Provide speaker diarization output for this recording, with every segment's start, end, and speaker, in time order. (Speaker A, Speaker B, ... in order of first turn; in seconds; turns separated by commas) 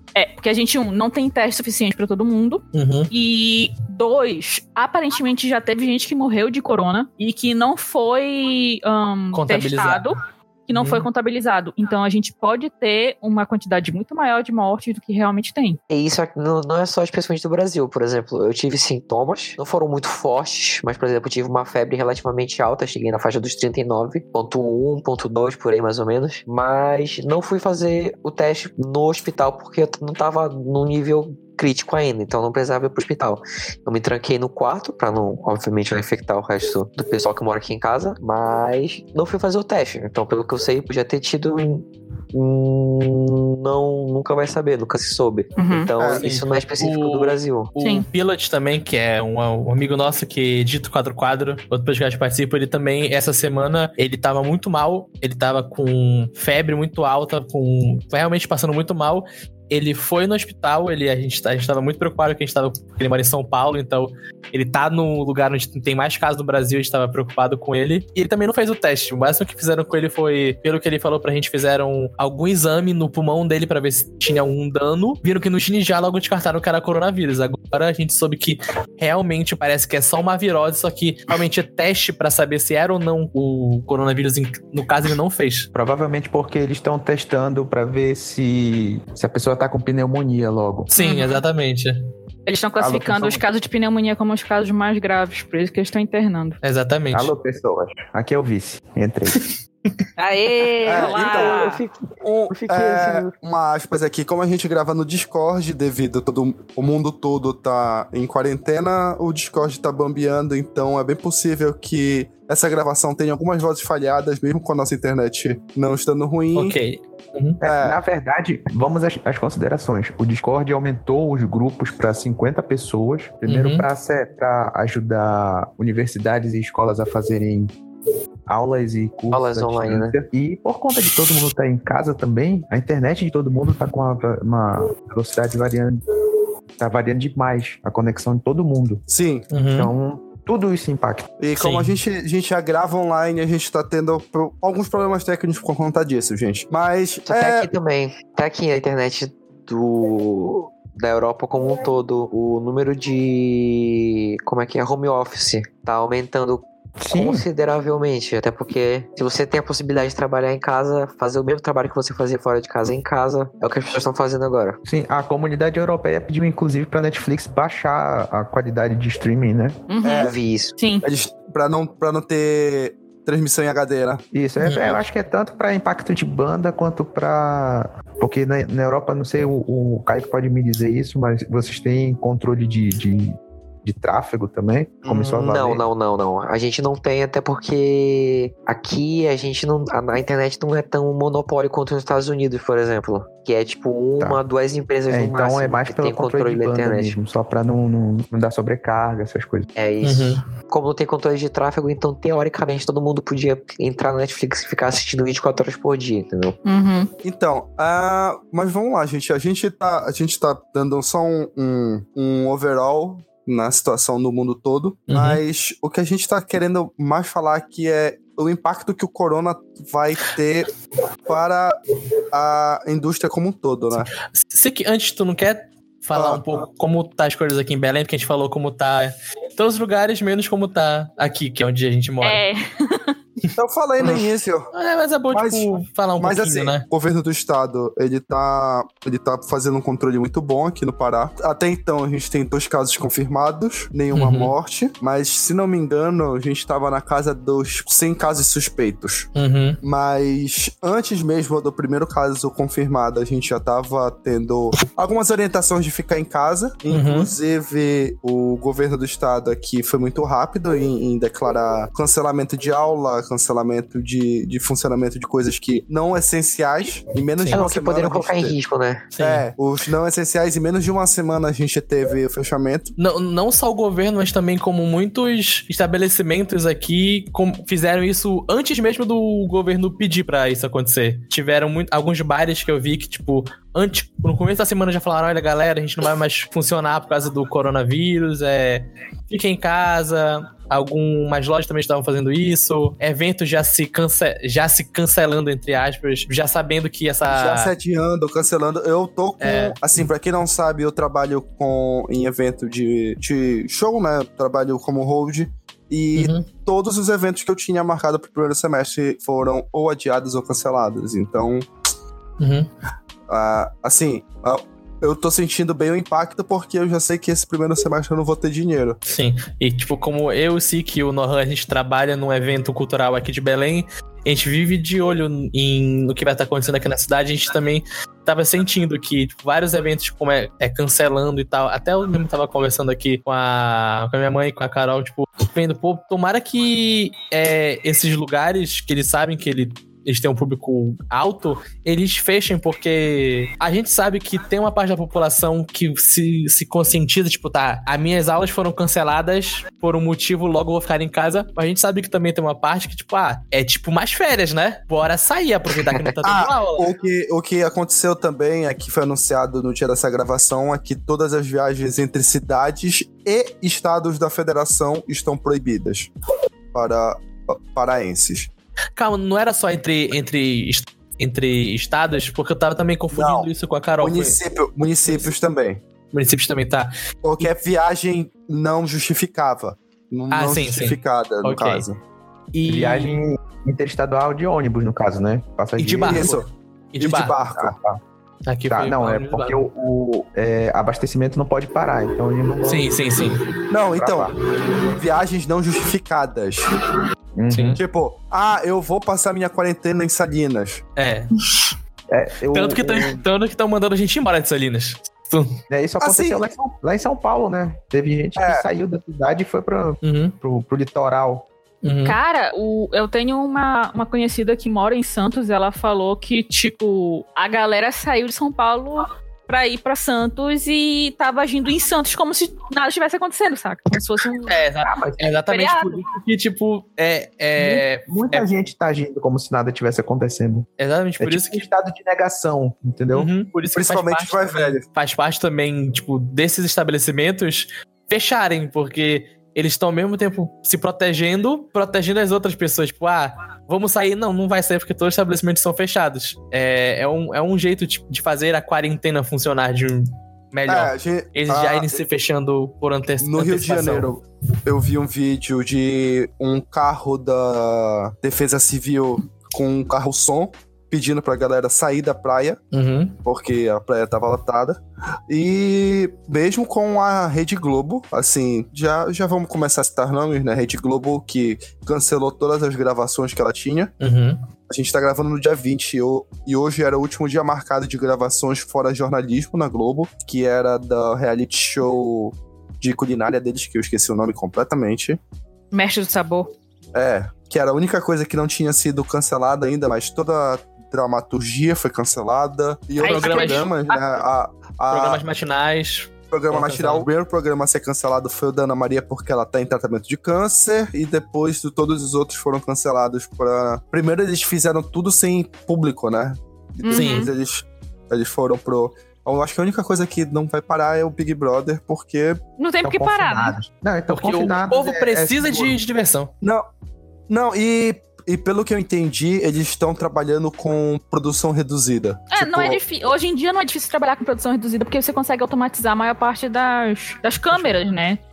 Speaker A: 0.1-15.8, Speaker B: 2.7-3.1, Speaker B: 9.3-10.0, Speaker B: 10.8-11.1, Speaker C: 15.9-47.7, Speaker A: 45.6-45.9, Speaker D: 46.0-46.4, Speaker B: 46.2-85.7, Speaker A: 47.8-48.1, Speaker E: 85.8-90.9, Speaker B: 90.9-92.0, Speaker A: 91.0-91.4, Speaker A: 92.5-96.6, Speaker E: 92.8-93.4, Speaker B: 96.6-97.3, Speaker E: 97.1-99.5, Speaker A: 100.2-101.8, Speaker D: 100.9-101.7, Speaker C: 100.9-103.3, Speaker D: 102.2-116.8, Speaker B: 116.5-117.6, Speaker E: 117.6-127.7, Speaker D: 117.6-118.0, Speaker B: 123.5-123.8, Speaker E: 128.5-136.0, Speaker C: 129.3-130.2, Speaker E: 136.8-139.0, Speaker D: 139.1-139.5, Speaker B: 139.5-139.9, Speaker E: 139.7-141.3, Speaker D: 141.4-147.7, Speaker B: 141.6-141.9, Speaker C: 147.3-164.8, Speaker E: 157.0-157.4, Speaker E: 164.8-169.8, Speaker A: 169.9-171.0, Speaker D: 170.0-170.3, Speaker C: 170.2-170.7, Speaker D: 171.0-174.2, Speaker E: 174.3-185.8, Speaker B: 174.6-175.0, Speaker C: 185.1-197.2, Speaker E: 195.1-199.7, Speaker C: 199.8-206.6, Speaker B: 200.0-200.4, Speaker A: 206.7-207.1, Speaker D: 207.2-220.7, Speaker B: 215.1-215.4, Speaker D: 221.3-221.7, Speaker D: 222.3-224.1, Speaker B: 224.3-232.4, Speaker D: 226.1-226.7, Speaker A: 232.2-233.2, Speaker D: 233.6-234.7, Speaker B: 234.0-236.8, Speaker D: 235.3-249.3, Speaker B: 244.1-244.5, Speaker B: 249.3-249.8, Speaker D: 249.8-268.5, Speaker B: 256.9-257.3, Speaker B: 267.4-267.7, Speaker C: 267.5-269.0, Speaker B: 269.1-269.5, Speaker D: 269.2-272.9, Speaker B: 273.0-297.7, Speaker D: 297.3-311.7, Speaker B: 299.4-299.8, Speaker B: 306.1-306.4, Speaker B: 312.4-312.7, Speaker D: 313.3-319.0, Speaker B: 319.1-356.9, Speaker D: 356.2-366.1, Speaker D: 366.7-368.5, Speaker B: 369.0-374.4, Speaker D: 373.1-373.5, Speaker D: 374.0-375.8, Speaker B: 376.1-377.5, Speaker D: 377.2-382.0, Speaker B: 380.3-381.8, Speaker B: 382.5-383.2, Speaker E: 382.7-386.4, Speaker B: 385.8-386.4, Speaker D: 386.0-386.5, Speaker B: 386.9-387.3, Speaker D: 387.0-387.8, Speaker E: 387.5-388.0, Speaker B: 388.5-389.6, Speaker E: 388.7-393.2, Speaker B: 392.7-393.4, Speaker D: 393.7-394.3, Speaker E: 393.9-394.3, Speaker D: 394.8-396.7, Speaker E: 397.4-397.8, Speaker B: 397.5-397.8, Speaker D: 397.8-400.8, Speaker B: 401.0-401.3, Speaker E: 402.1-403.2, Speaker B: 402.5-405.5, Speaker E: 405.7-411.5, Speaker D: 406.0-406.4, Speaker D: 408.4-408.6, Speaker B: 410.0-410.3, Speaker B: 411.8-412.2, Speaker A: 412.0-424.6, Speaker B: 424.5-428.5, Speaker E: 424.8-425.3, Speaker A: 425.5-426.0, Speaker E: 427.6-430.7, Speaker B: 430.8-431.7, Speaker E: 431.2-433.3, Speaker B: 433.1-454.1, Speaker D: 433.7-434.8, Speaker D: 450.7-452.0, Speaker D: 453.2-462.6, Speaker B: 462.7-463.2, Speaker D: 463.2-473.9, Speaker B: 474.0-474.4, Speaker D: 474.7-485.2, Speaker A: 485.7-486.5, Speaker D: 486.9-495.2, Speaker A: 493.0-494.2, Speaker B: 493.0-493.7, Speaker B: 494.9-497.1, Speaker D: 496.3-512.4, Speaker A: 506.8-507.3, Speaker B: 506.9-507.3, Speaker A: 512.6-513.6, Speaker E: 512.8-515.8, Speaker B: 514.1-516.3, Speaker D: 517.3-522.5, Speaker A: 522.3-528.2, Speaker E: 522.5-522.8